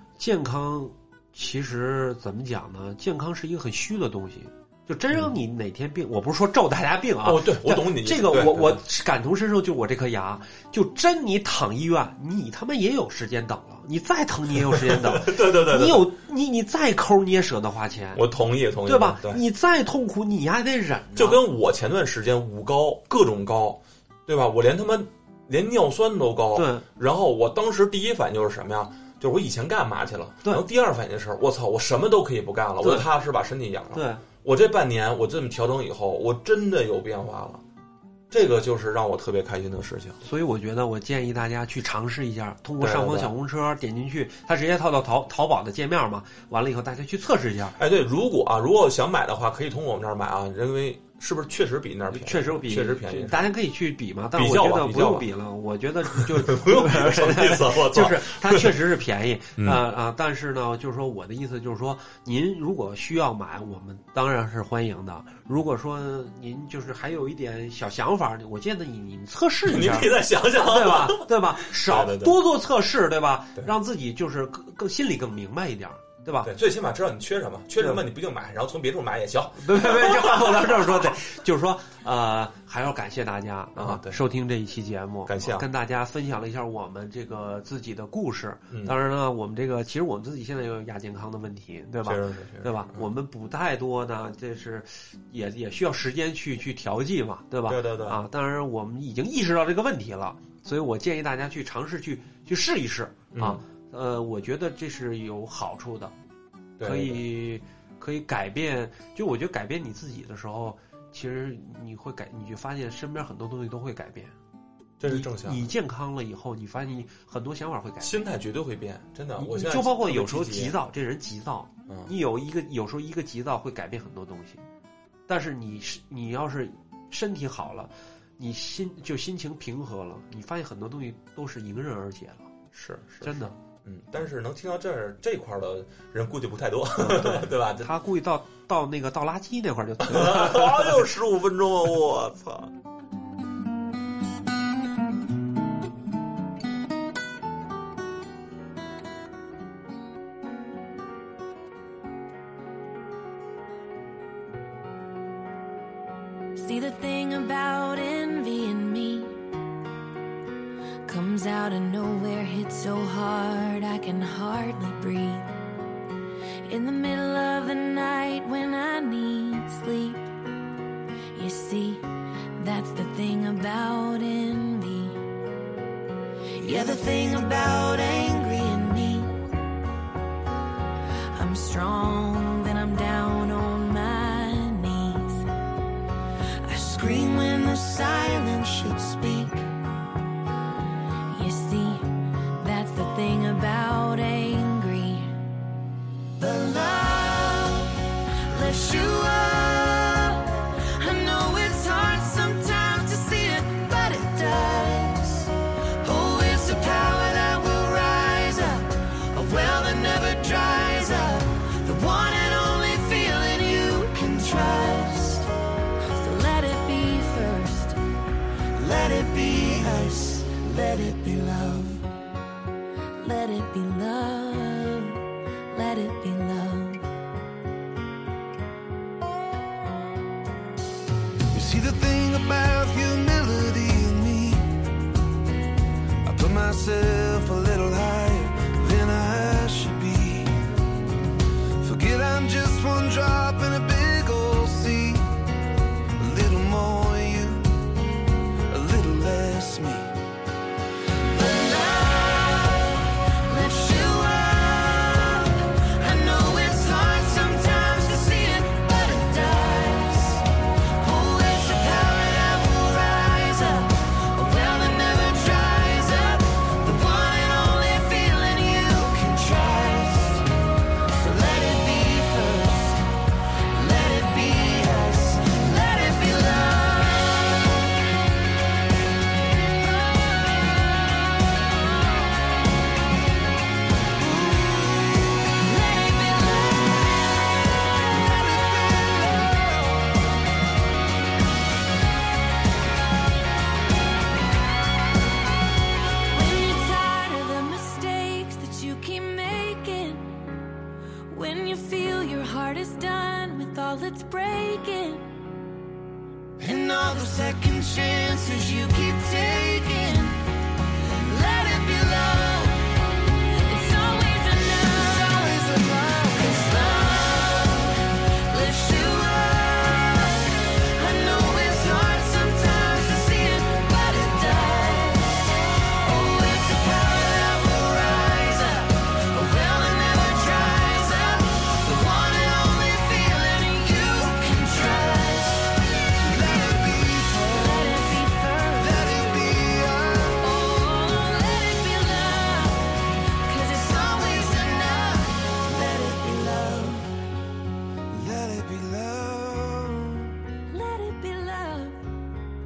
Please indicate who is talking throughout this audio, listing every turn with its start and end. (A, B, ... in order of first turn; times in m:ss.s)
0:00.2-0:18.2 A
0:07.2-0:08.8 B
0:14.7-0:16.1 B
0:18.1-0:19.4 B
0:18.8-0:21.4 A
0:21.2-0:37.6 B
0:26.5-0:26.8 A
0:32.8-0:33.1 A
0:33.9-0:34.2 A
0:38.3-0:40.2 B
0:40.2-0:47.8 A
0:42.8-0:43.3 B
0:47.8-0:53.5 B
0:52.1-1:16.5 A
0:54.3-0:55.3 B
0:56.1-0:58.7 B
1:09.6-1:12.4 B
1:16.4-1:21.1 B
1:19.6-1:46.1 A
1:23.8-1:24.2 B
1:25.2-1:25.7 B
1:28.7-1:29.0 B
1:32.0-1:33.0 B
1:37.6-1:38.2 B
1:43.3-1:43.6 B
1:46.8-1:47.2 B
1:46.8-1:54.3 A
1:55.0-1:55.6 B
1:55.0-1:58.1 A
1:58.0-2:00.8 B
1:59.4-2:04.6 A
2:01.9-2:02.1 B
2:05.3-2:12.5 A
2:12.7-2:17.9 B
2:13.2-2:13.5 A
2:17.0-2:21.1 A
2:20.0-2:22.7 B
2:36.6-2:39.4 C
2:41.0-2:45.5 C
2:46.7-2:50.3 C
2:51.3-2:52.0 C
2:52.6-2:55.2 C
2:56.5-2:59.4 C
3:01.3-3:05.5 C
3:06.6-3:09.7 C
3:11.3-3:15.3 C
3:16.4-3:35.5 C
3:36.1-3:38.0 C
3:38.8-3:42.1 C
3:43.2-3:47.1 C
3:51.5-3:54.7 D
3:56.2-4:00.7 D
4:01.8-4:05.3 D
4:06.2-4:07.8 D
4:08.7-4:10.1 D
4:11.2-4:30.5 C
4:31.2-4:33.1 C
4:33.7-4:37.9 C
4:39.8-4:40.9 C
4:44.2-4:49.5 C
4:48.1-4:49.6 D
4:56.3-5:00.4 C
5:01.3-5:05.3 C
5:06.6-5:10.4 C
5:07.4-5:07.7 D
5:11.1-5:12.9 C
5:13.4-5:36.6 C
5:36.2-5:38.2 D
5:37.5-5:39.4 C
5:38.8-5:40.4 D
5:40.4-5:47.1 C
5:48.1-5:50.3 D
5:50.7-5:52.1 C